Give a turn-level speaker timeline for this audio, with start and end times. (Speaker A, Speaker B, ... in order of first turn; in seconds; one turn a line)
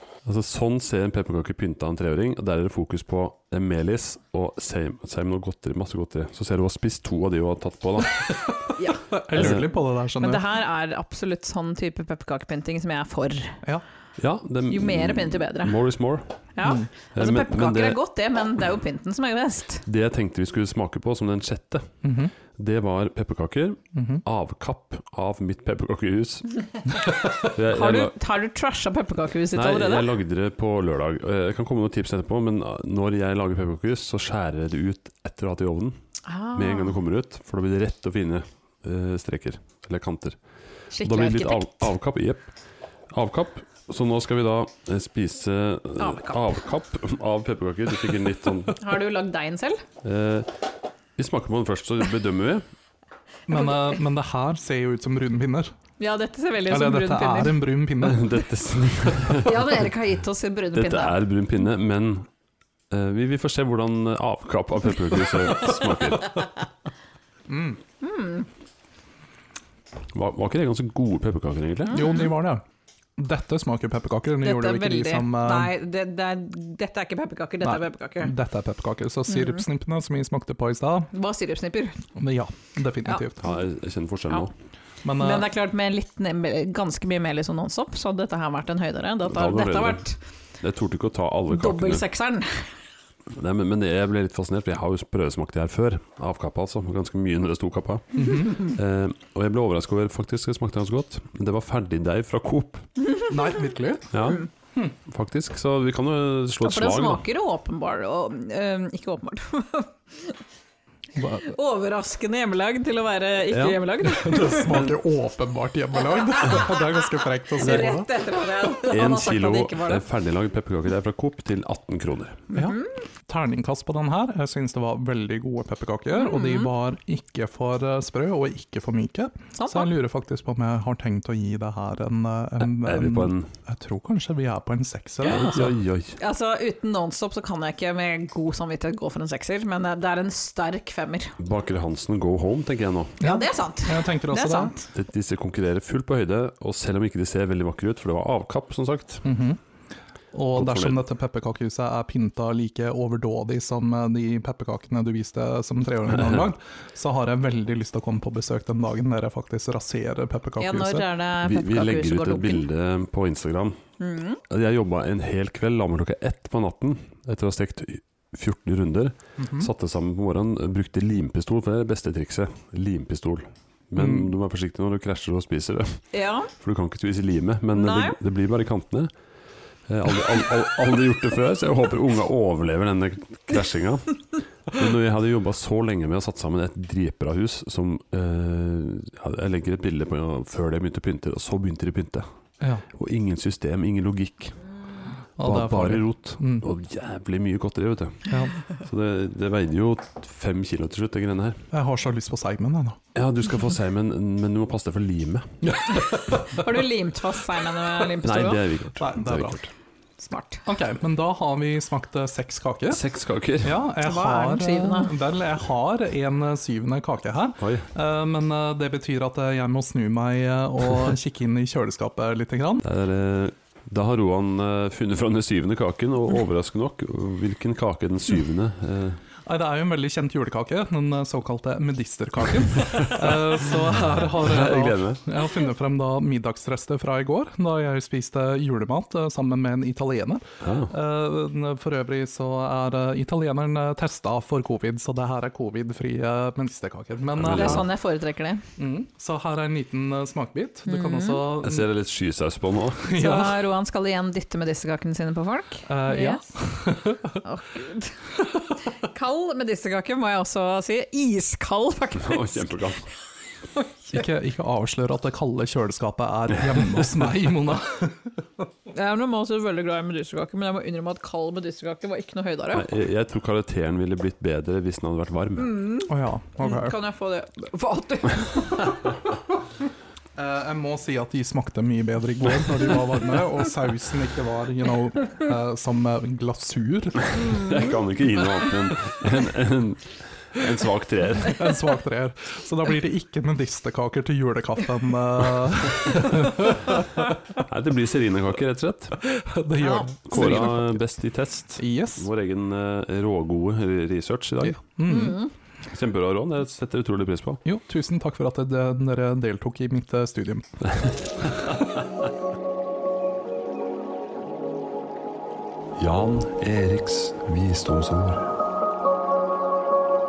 Speaker A: 0.2-8.3
Speaker B: 8.8-9.6
Speaker C: 9.1-10.5
Speaker A: 9.4-9.6
Speaker B: 10.2-13.6
Speaker A: 14.2-16.4
Speaker B: 14.7-15.8
Speaker B: 16.6-19.8
Speaker A: 17.1-18.0
Speaker A: 19.9-22.0
Speaker C: 22.0-22.3
Speaker A: 22.5-26.6
Speaker C: 23.9-24.2
Speaker A: 27.4-28.1
Speaker B: 27.6-30.1
Speaker A: 29.5-36.0
Speaker B: 36.2-37.0
Speaker A: 36.5-40.4
Speaker B: 40.9-41.9
Speaker A: 41.0-42.5
Speaker A: 43.1-48.8
Speaker B: 46.0-46.4
Speaker B: 48.8-49.8
Speaker A: 50.0-50.5
Speaker A: 51.1-52.6
Speaker C: 53.5-55.7
Speaker B: 56.0-57.6
Speaker C: 56.7-58.4
Speaker A: 58.0-59.8
Speaker B: 59.3-61.2
Speaker A: 60.7-62.3
Speaker A: 62.9-66.4
Speaker C: 67.5-67.8
Speaker B: 68.0-68.5
Speaker A: 70.1-72.0
Speaker B: 71.9-72.3
Speaker C: 71.9-72.6
Speaker C: 73.2-75.7
Speaker B: 74.4-78.3
Speaker C: 77.6-81.1
Speaker B: 79.3-79.6
Speaker B: 81.1-82.0
Speaker C: 82.2-83.4
Speaker A: 83.4-84.5
Speaker C: 85.0-85.5
Speaker B: 85.2-90.2
Speaker A: 89.2-90.0
Speaker A: 90.6-92.0
Speaker B: 91.5-92.8
Speaker A: 93.3-102.9
Speaker C: 98.2-98.7
Speaker C: 103.3-104.2
Speaker A: 104.1-104.5
Speaker A: 105.0-107.2
Speaker B: 106.6-110.4
Speaker C: 111.2-111.5
Speaker B: 111.4-114.9
Speaker A: 113.5-113.8
Speaker C: 114.0-118.1
Speaker A: 114.7-114.9
Speaker B: 116.3-116.8
Speaker B: 117.5-120.0
Speaker A: 117.6-117.9
Speaker A: 118.8-122.5
Speaker B: 122.5-122.9
Speaker C: 122.5-135.7
Speaker B: 126.1-126.7
Speaker B: 129.6-129.9
Speaker A: 132.6-133.5
Speaker A: 135.2-136.2
Speaker B: 136.2-141.4
Speaker A: 141.4-143.2
Speaker C: 143.2-144.7
Speaker B: 143.2-144.9
Speaker A: 144.9-149.2
Speaker C: 149.2-149.6
Speaker C: 150.3-161.1
Speaker A: 150.6-151.0
Speaker A: 156.1-156.5
Speaker B: 160.6-162.6
Speaker A: 161.4-163.8
Speaker B: 164.0-164.4
Speaker A: 164.5-179.1
Speaker C: 169.4-169.7
Speaker C: 174.0-174.3
Speaker B: 176.1-176.5
Speaker B: 177.7-178.2
Speaker A: 179.9-192.2
Speaker C: 192.6-192.8
Speaker A: 192.9-194.6
Speaker C: 195.4-196.6
Speaker A: 195.4-201.6
Speaker C: 198.3-198.5
Speaker C: 201.7-203.0
Speaker A: 203.1-206.0
Speaker C: 205.8-206.6
Speaker B: 206.5-208.6
Speaker A: 208.2-209.7
Speaker C: 209.0-209.6
Speaker B: 210.2-210.6
Speaker C: 210.7-213.0
Speaker A: 212.9-213.8
Speaker C: 213.6-222.8
Speaker B: 214.0-215.1
Speaker A: 217.6-217.9
Speaker A: 222.8-229.2
Speaker C: 229.4-247.9
Speaker A: 234.4-235.2
Speaker A: 240.6-240.9
Speaker A: 247.4-247.9
Speaker B: 247.5-248.6
Speaker C: 248.8-251.9
Speaker B: 250.9-251.4
Speaker A: 251.6-253.1
Speaker C: 253.0-253.6
Speaker B: 253.1-256.4
Speaker C: 255.9-257.4
Speaker B: 257.4-262.9
Speaker A: 262.1-263.1
Speaker B: 263.7-264.2
Speaker C: 264.1-268.3
Speaker B: 268.9-272.9
Speaker A: 272.7-275.8
Speaker B: 275.6-279.1
Speaker C: 276.1-277.0
Speaker C: 280.4-287.6
Speaker A: 287.4-291.7
Speaker B: 287.4-287.8
Speaker C: 291.5-297.2
Speaker A: 297.6-299.2
Speaker C: 299.2-301.0
Speaker B: 299.8-300.1
Speaker A: 300.3-304.8
Speaker C: 301.8-302.3
Speaker C: 304.6-305.4
Speaker B: 305.0-305.5
Speaker A: 305.9-307.6
Speaker C: 307.6-310.8
Speaker A: 311.0-311.7
Speaker A: 316.0-318.5